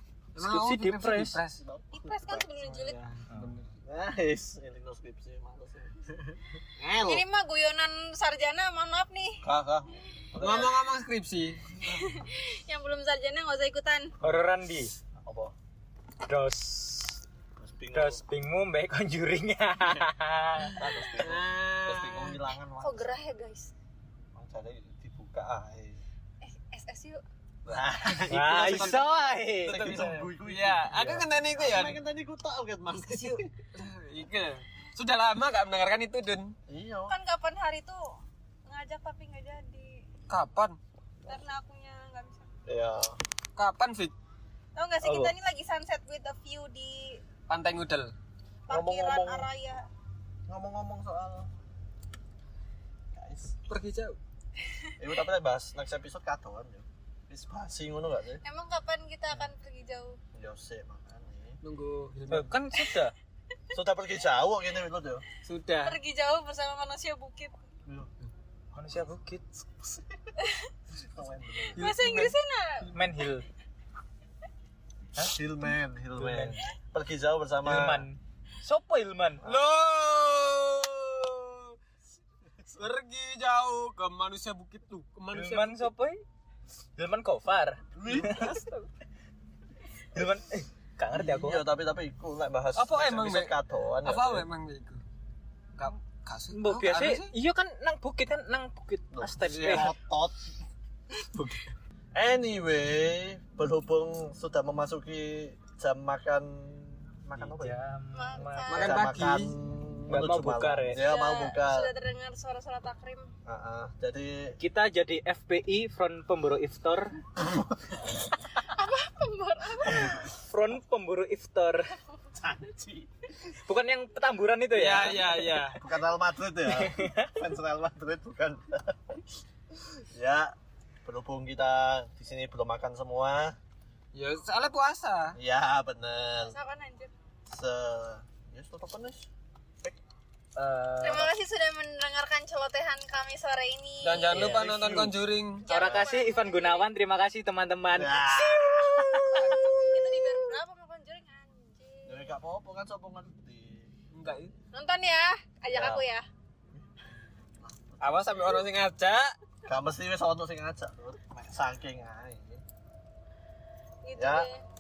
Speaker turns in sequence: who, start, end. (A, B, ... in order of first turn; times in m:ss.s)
0:00.3-0:01.6 A
0:00.4-0:01.4 B
0:01.6-0:02.5 C
0:01.9-0:03.0 D
0:02.6-0:03.7 A
0:03.3-0:03.6 B
0:03.8-0:07.2 C
0:07.0-0:09.4 D
0:09.4-0:10.8 C
0:10.4-0:11.7 A
0:11.8-0:14.1 D
0:14.2-0:14.9 B
0:15.2-0:15.5 C
0:16.2-0:17.2 B
0:17.6-0:18.2 C
0:17.9-0:20.8 B
0:20.8-0:23.2 C
0:21.2-0:22.4 A
0:22.8-0:23.7 D
0:24.3-0:26.0 C
0:26.4-0:27.2 D
0:27.6-0:33.5 C
0:28.1-0:32.0 A
0:28.3-0:29.8 B
0:33.7-0:36.6 A
0:36.7-0:37.1 C
0:37.1-0:40.0 D
0:40.3-0:40.8 A
0:41.3-0:42.5 D
0:42.6-0:43.2 C
0:43.6-0:44.1 A
0:44.7-0:47.2 D
0:45.0-0:45.3 B
0:47.5-0:48.1 A
0:48.7-0:49.9 D
0:48.7-0:49.5 C
0:50.5-0:51.5 C
0:53.1-0:53.5 C
0:53.7-0:54.2 A
0:54.6-0:54.9 D
0:55.0-0:58.4 C
0:58.4-1:00.2 D
1:00.3-1:01.6 C
1:01.6-1:02.5 A
1:02.3-1:03.1 B
1:03.7-1:05.2 C
1:05.4-1:06.0 A
1:05.8-1:07.6 D
1:07.8-1:08.1 C
1:08.7-1:09.6 B
1:09.8-1:10.1 C
1:10.4-1:10.7 D
1:11.0-1:11.9 C
1:11.7-1:13.0 D
1:11.7-1:12.3 A
1:12.9-1:13.4 B
1:15.2-1:18.0 C
1:16.2-1:16.6 B
1:17.6-1:19.4 B
1:19.4-1:21.8 A
1:22.7-1:25.9 A
1:25.3-1:26.2 B
1:27.0-1:28.8 B
1:27.9-1:28.7 C
1:30.1-1:31.6 B
1:31.1-1:34.5 C
1:32.8-1:35.0 A
1:35.8-1:37.3 A
1:36.5-1:39.9 B
1:39.1-1:40.5 C
1:42.1-1:47.8 C
1:47.4-1:49.0 B
1:48.1-1:49.0 D
1:48.7-1:49.5 A
1:48.7-1:51.9 C
1:50.1-1:51.0 B
1:51.0-1:53.3 D
1:53.4-1:54.6 C
1:54.6-1:57.2 B
1:58.6-2:00.2 D
2:00.0-2:01.9 B
2:02.4-2:03.1 C
2:03.5-2:05.6 B
2:04.7-2:05.8 A
2:05.7-2:10.5 C
2:06.6-2:07.3 B
2:11.0-2:13.6 C
2:14.1-2:15.4 A
2:15.3-2:16.6 C
2:16.4-2:17.1 D
2:17.5-2:19.3 C
2:20.6-2:21.3 B
2:21.0-2:24.5 D
2:24.0-2:25.6 A
2:24.3-2:24.7 B
2:24.5-2:26.1 C
2:25.6-2:26.9 D
2:25.7-2:29.6 B
2:27.9-2:29.8 C
2:29.3-2:30.4 A
2:29.9-2:32.2 D
2:32.1-2:33.9 C
2:34.1-2:34.5 A
2:34.7-2:36.3 D
2:35.7-2:36.0 C
2:36.7-2:38.6 C
2:38.0-2:39.3 A
2:39.6-2:42.6 C
2:44.0-2:44.6 D
2:44.2-2:44.5 C